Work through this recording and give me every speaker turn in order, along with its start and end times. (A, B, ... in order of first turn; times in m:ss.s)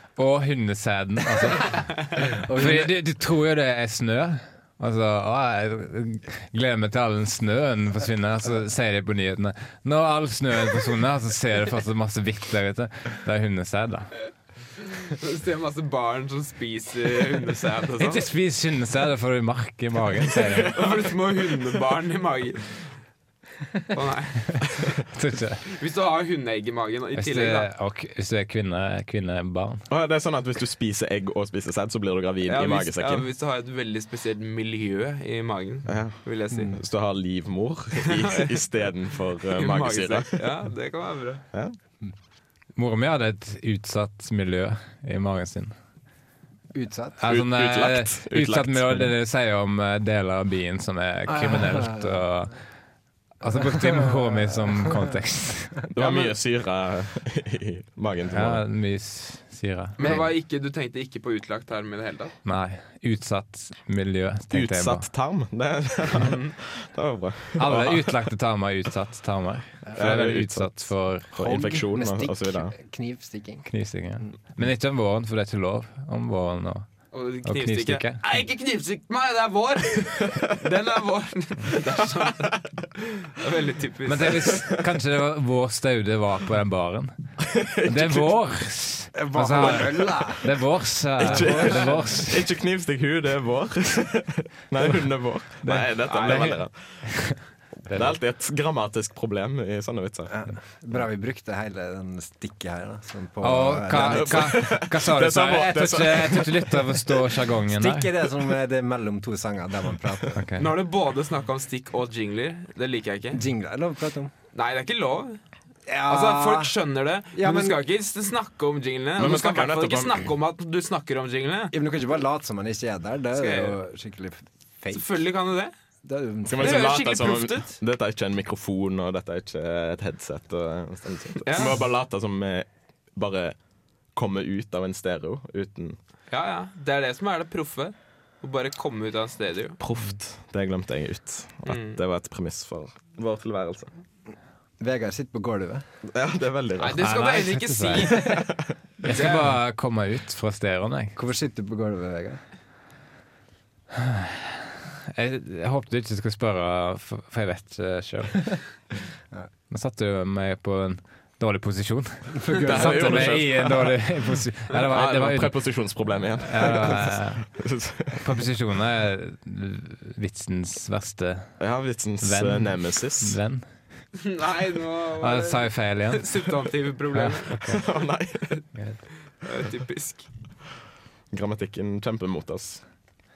0:00.1-0:14.1 A
0:02.3-0:02.9 B
0:15.0-0:18.2 C
0:18.0-0:20.8 A
0:20.5-0:21.7 D
0:20.7-0:22.8 C
0:23.9-0:24.9 C
0:25.1-0:25.6 A
0:25.7-0:27.7 C
0:27.1-0:29.8 A
0:29.9-0:33.2 D
0:32.4-0:36.8 C
0:35.9-0:40.4 D
0:36.5-0:36.8 B
0:38.0-0:38.5 C
0:39.5-0:41.4 C
0:42.8-0:45.7 A
0:46.7-0:47.2 B
0:47.2-0:52.6 A
0:47.3-0:49.1 D
0:51.2-0:52.2 B
0:53.4-0:55.8 A
0:53.4-0:54.9 B
0:55.9-0:58.6 D
0:56.0-0:56.4 C
0:58.3-1:00.3 A
1:00.0-1:02.3 C
1:02.4-1:05.1 A
1:04.5-1:08.1 D
1:06.2-1:06.5 C
1:07.6-1:11.3 A
1:09.8-1:10.2 B
1:09.9-1:12.7 D
1:11.4-1:14.3 B
1:13.7-1:16.9 A
1:17.1-1:22.6 C
1:17.4-1:18.2 A
1:23.2-1:24.5 C
1:24.0-1:27.1 A
1:27.4-1:28.3 D
1:27.8-1:32.5 A
1:29.1-1:30.6 B
1:31.2-1:32.1 B
1:31.2-1:40.3 D
1:35.6-1:37.4 A
1:36.1-1:36.4 C
1:37.9-1:38.1 A
1:40.3-1:44.7 B
1:43.4-1:48.1 A
1:44.0-1:47.2 D
1:47.7-1:50.4 B
1:50.3-1:50.7 A
1:50.6-1:53.4 C
1:53.3-1:54.3 B
1:54.5-1:55.4 C
1:55.9-1:56.7 B
1:56.0-2:01.7 C
1:57.3-1:57.8 B
1:59.2-2:00.3 D
2:01.7-2:05.2 B
2:03.4-2:03.8 C
2:04.9-2:05.7 C
2:06.0-2:07.0 B
2:06.5-2:13.6 D
2:06.6-2:07.8 C
2:11.4-2:11.8 C
2:14.1-2:16.0 D
2:16.3-2:19.8 C
2:19.8-2:23.9 D
2:21.6-2:22.0 C
2:24.8-2:25.8 B
2:26.1-2:27.0 D
2:26.8-2:28.5 C
2:27.0-2:28.3 A
2:28.5-2:28.7 D
2:29.0-2:31.2 A
2:29.1-2:29.5 C
2:31.2-2:32.4 B
2:33.9-2:38.6 A
2:39.7-2:45.7 A
2:42.3-2:43.6 B
2:42.6-2:44.1 D
2:44.8-2:48.2 D
2:46.4-2:47.5 A
2:48.1-2:51.6 A
2:51.6-2:53.4 D
2:52.2-2:53.7 A
2:54.2-2:57.9 C
2:55.2-2:56.3 A
2:57.1-2:57.8 A
2:57.7-2:58.6 D
2:58.7-2:59.0 A
2:59.4-3:00.3 C
3:01.3-3:02.8 D